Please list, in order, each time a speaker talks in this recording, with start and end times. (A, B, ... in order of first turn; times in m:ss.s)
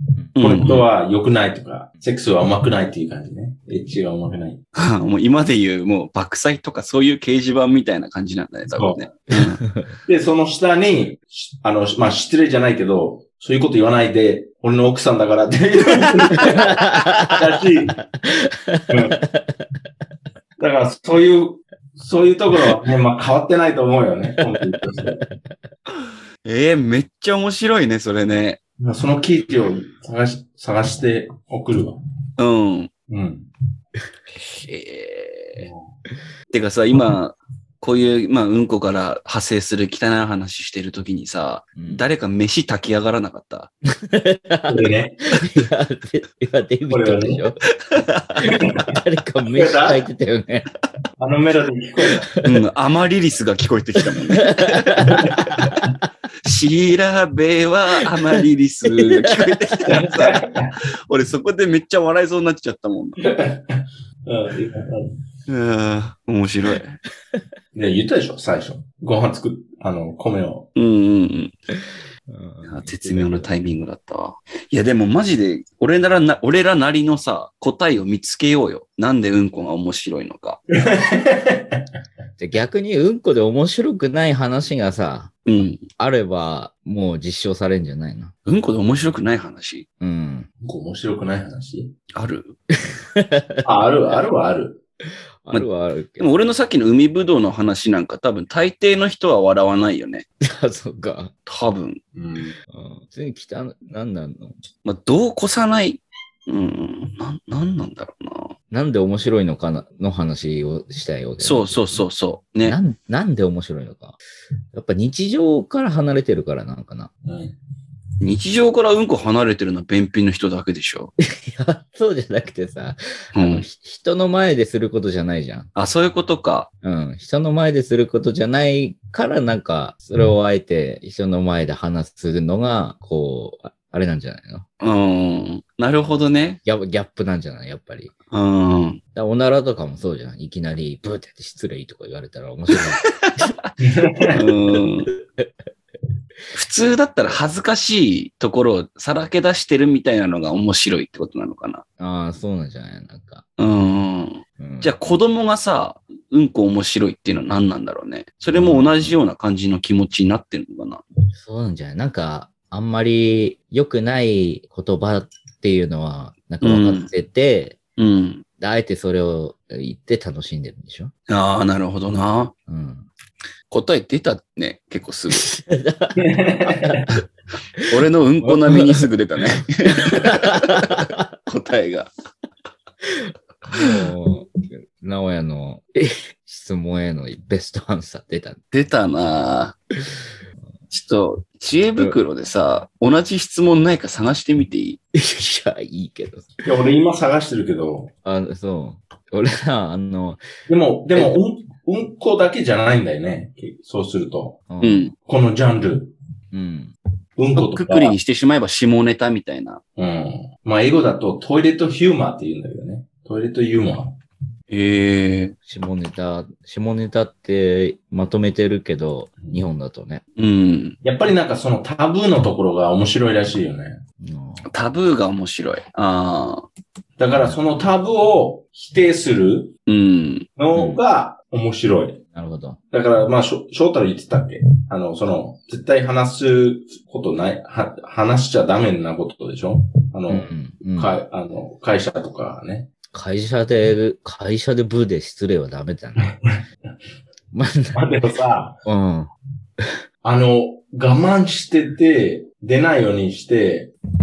0:00.4-0:04.6 A
0:00.4-0:00.9 B
0:04.8-0:09.6 B
0:08.7-0:09.1 A
0:09.6-0:09.9 C
0:10.1-0:18.0 A
0:16.4-0:17.6 C
0:18.2-0:19.6 C
0:18.9-0:19.2 A
0:20.6-0:25.2 A
0:24.4-0:25.5 C
0:26.4-0:28.6 B
0:28.8-0:32.0 A
0:32.4-0:32.9 B
0:33.1-0:33.5 A
0:34.6-0:35.7 B
0:35.6-0:35.9 A
0:36.5-0:43.7 B
0:41.8-0:42.0 C
0:44.0-0:47.6 C
0:44.7-0:45.4 A
0:46.9-0:47.4 A
0:47.9-0:48.3 B
0:48.4-0:50.7 C
0:48.4-0:48.9 A
0:49.5-0:50.1 A
0:51.2-0:52.3 A
0:52.1-0:52.6 C
0:52.4-0:55.2 B
0:54.4-0:55.8 C
0:55.1-0:55.9 A
0:56.4-1:00.5 B
0:58.9-0:59.6 C
0:59.9-1:00.7 A
1:01.1-1:03.2 B
1:03.2-1:05.1 A
1:05.5-1:07.0 B
1:07.7-1:10.7 A
1:10.7-1:11.6 B
1:12.3-1:13.5 C
1:12.6-1:20.6 B
1:20.8-1:21.8 A
1:22.4-1:25.4 C
1:25.4-1:25.8 B
1:26.0-1:28.3 C
1:28.4-1:29.9 B
1:30.0-1:30.5 C
1:30.6-1:31.9 A
1:32.1-1:32.6 B
1:32.8-1:34.2 C
1:33.6-1:34.8 A
1:35.4-1:36.3 C
1:36.2-1:40.2 B
1:40.4-1:41.3 C
1:41.5-1:42.0 B
1:42.1-1:42.6 A
1:42.7-1:44.6 C
1:44.8-1:48.6 B
1:48.7-1:52.0 C
1:51.4-1:52.8 B
1:52.6-1:54.2 C
1:54.7-1:57.1 C
1:57.2-1:57.6 A
1:58.2-2:01.1 B
2:01.3-2:05.7 C
2:03.4-2:03.6 B
2:05.7-2:06.7 B
2:06.8-2:14.7 C
2:14.8-2:16.6 B
2:16.6-2:18.1 C
2:18.3-2:19.0 B
2:19.1-2:23.5 C
2:23.8-2:24.4 A
2:24.3-2:25.1 B
2:26.5-2:31.8 B
2:32.0-2:33.4 C
2:33.6-2:41.0 B
2:34.6-2:34.9 C
2:38.5-2:39.1 C
2:41.4-2:47.8 C
2:46.6-2:47.1 B
2:48.0-2:48.4 B
2:48.6-2:51.1 C
2:51.3-2:52.5 B
2:52.7-2:53.1 C
2:53.7-2:55.5 B
2:55.3-2:57.0 C
2:56.2-2:57.1 A
2:57.9-3:02.1 B
2:58.4-2:59.1 C
3:00.0-3:01.2 C
3:03.7-3:08.6 C
3:08.7-3:09.8 B
3:10.9-3:15.0 B
3:15.1-3:16.6 C
3:16.6-3:18.1 A
3:18.2-3:20.4 C
3:20.7-3:24.6 A
3:24.7-3:25.1 C
3:24.8-3:25.1 B
3:25.2-3:26.1 A
3:26.5-3:26.9 C
3:27.4-3:28.1 A
3:27.6-3:29.8 B
3:30.0-3:34.2 A
3:34.7-3:35.6 B
3:35.6-3:40.2 C
3:40.4-3:41.0 B
3:41.0-3:44.0 A
3:44.2-3:44.6 C
3:44.7-3:46.7 B
3:47.2-3:49.7 A
3:49.9-3:50.5 B
3:50.6-3:52.2 A
3:50.7-3:51.0 C
3:52.3-3:52.8 C
3:52.9-4:02.9 A
4:00.3-4:01.2 C
4:03.1-4:06.3 C
4:06.2-4:06.6 A
4:07.5-4:08.1 C
4:07.9-4:08.8 A
4:08.8-4:09.9 C
4:10.2-4:13.9 A